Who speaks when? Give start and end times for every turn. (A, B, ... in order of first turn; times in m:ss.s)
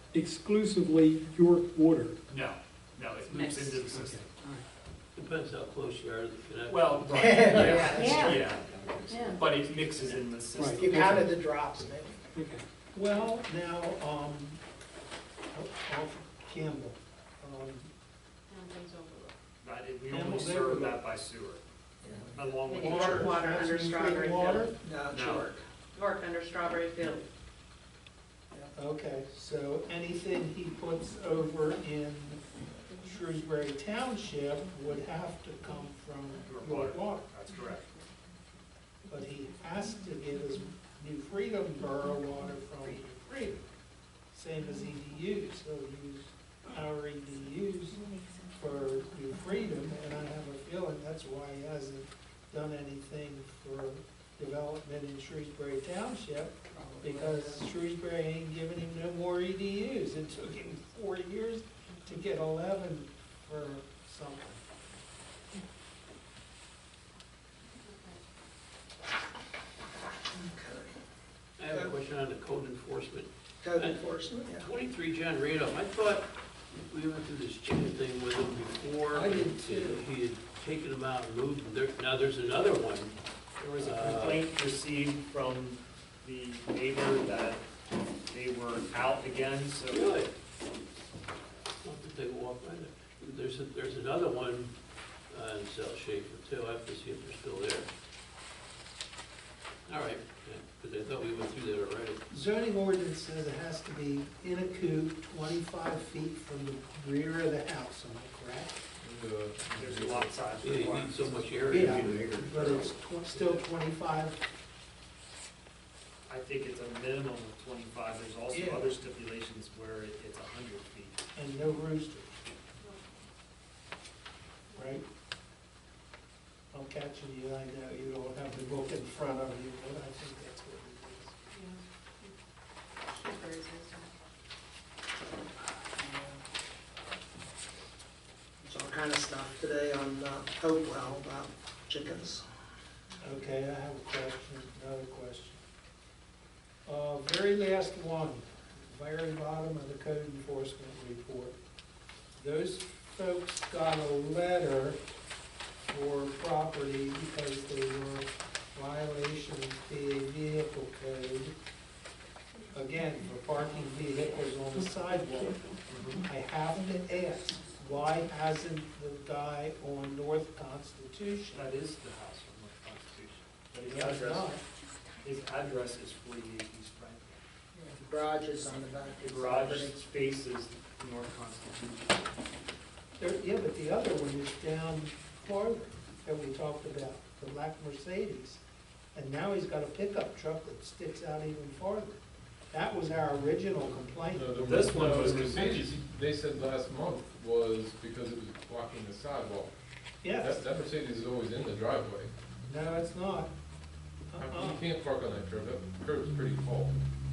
0:00.1-0:02.1 A
0:02.3-0:04.3 B
0:03.3-0:03.6 C
0:03.7-0:04.6 A
0:05.1-0:08.3 D
0:06.7-0:11.1 B
0:07.1-0:08.4 E
0:09.1-0:09.4 C
0:09.2-0:09.5 D
0:10.5-0:11.4 A
0:10.7-0:12.3 E
0:12.3-0:12.6 A
0:12.9-0:14.6 F
0:15.5-0:17.9 F
0:18.5-0:19.4 C
0:19.6-0:21.6 B
0:20.1-0:21.0 F
0:22.0-0:22.3 E
0:22.3-0:23.4 B
0:22.7-0:24.6 C
0:22.7-0:24.7 F
0:24.8-0:25.6 E
0:25.1-0:25.5 B
0:25.9-0:27.2 C
0:28.7-0:32.4 F
0:33.0-0:37.3 F
0:36.5-0:37.8 B
0:37.5-0:38.1 C
0:39.1-0:43.6 F
0:44.3-1:04.6 F
0:47.9-0:48.4 C
0:56.8-0:57.6 E
1:07.8-1:08.2 C
1:10.3-1:11.0 E
1:11.6-1:23.1 D
1:13.6-1:14.6 E
1:19.2-1:20.0 F
1:19.3-1:19.8 E
1:23.6-1:27.6 B
1:23.8-1:24.4 D
1:28.3-1:30.2 B
1:29.9-1:30.3 D
1:31.8-1:34.7 D
1:35.3-1:37.9 D
1:39.9-1:42.2 D
1:42.3-1:48.8 F
1:49.0-1:50.4 G
1:49.7-1:52.2 B
1:50.6-1:53.0 D
1:51.7-1:54.4 F
1:56.3-2:01.2 B
1:58.5-1:58.8 F
2:01.3-2:02.4 F
2:02.8-2:03.1 C
2:04.7-2:05.0 F
2:06.7-2:11.4 F
2:11.5-2:12.3 C
2:13.1-2:14.1 C
2:15.9-2:16.4 E
2:18.6-2:22.4 E
2:23.2-2:25.6 F
2:26.8-2:31.6 F
2:32.4-2:35.0 F
2:35.9-2:41.6 F
2:42.7-2:45.6 F
2:45.9-2:46.2 B
2:46.1-2:51.7 F
2:51.5-2:54.6 B
2:53.8-2:54.6 F
2:55.2-2:57.4 B
2:57.8-3:00.0 E
2:59.2-3:02.2 B
3:03.2-3:08.6 F
3:09.1-3:12.2 F
3:12.7-3:14.7 F
3:14.2-3:19.7 G
3:14.6-3:16.0 B
3:20.2-3:20.6 F
3:20.3-3:22.3 G
3:22.6-3:23.5 F
3:24.3-3:24.9 F
3:24.4-3:27.0 G